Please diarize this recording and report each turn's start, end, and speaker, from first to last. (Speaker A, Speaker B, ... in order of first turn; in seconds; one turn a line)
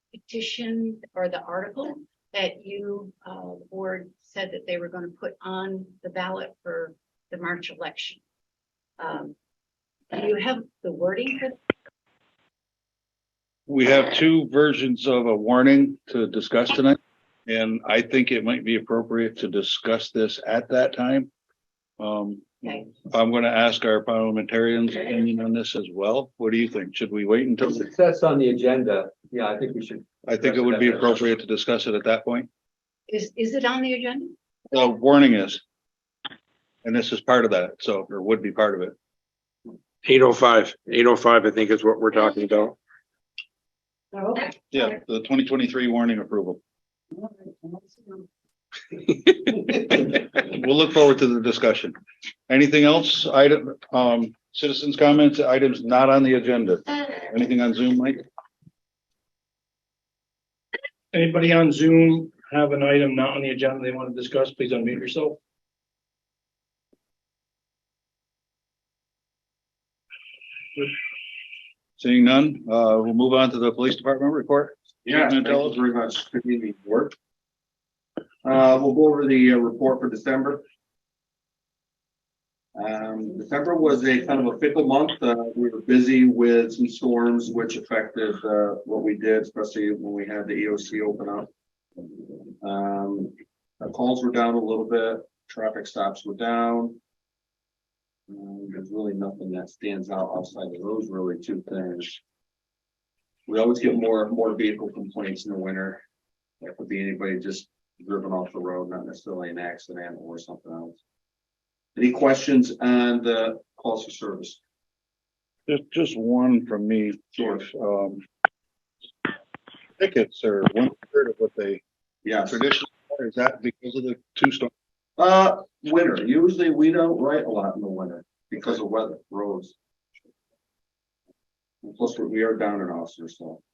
Speaker A: 0.1-8.2
Speaker A: 9.0-9.3
Speaker A: 10.1-11.6
Speaker B: 13.7-21.3
Speaker B: 22.0-27.9
Speaker C: 27.6-31.3
Speaker B: 30.3-32.5
Speaker A: 33.1-34.3
Speaker B: 34.7-35.6
Speaker B: 36.8-39.0
Speaker D: 40.0-42.8
Speaker A: 44.1-44.5
Speaker B: 44.7-46.6
Speaker B: 50.4-51.9
Speaker B: 52.5-58.2
Speaker E: 61.1-65.4
Speaker B: 72.0-75.8
Speaker F: 75.1-77.1
Speaker F: 78.4-80.6
Speaker F: 82.8-91.5
Speaker F: 92.6-97.0
Speaker F: 98.3-102.2
Speaker F: 103.5-106.0
Speaker F: 106.6-111.0
Speaker F: 112.0-114.6
Speaker B: 115.7-118.2
Speaker B: 120.0-121.8
Speaker F: 122.2-122.6
Speaker B: 122.4-124.7
Speaker F: 125.2-129.8
Speaker F: 131.8-133.6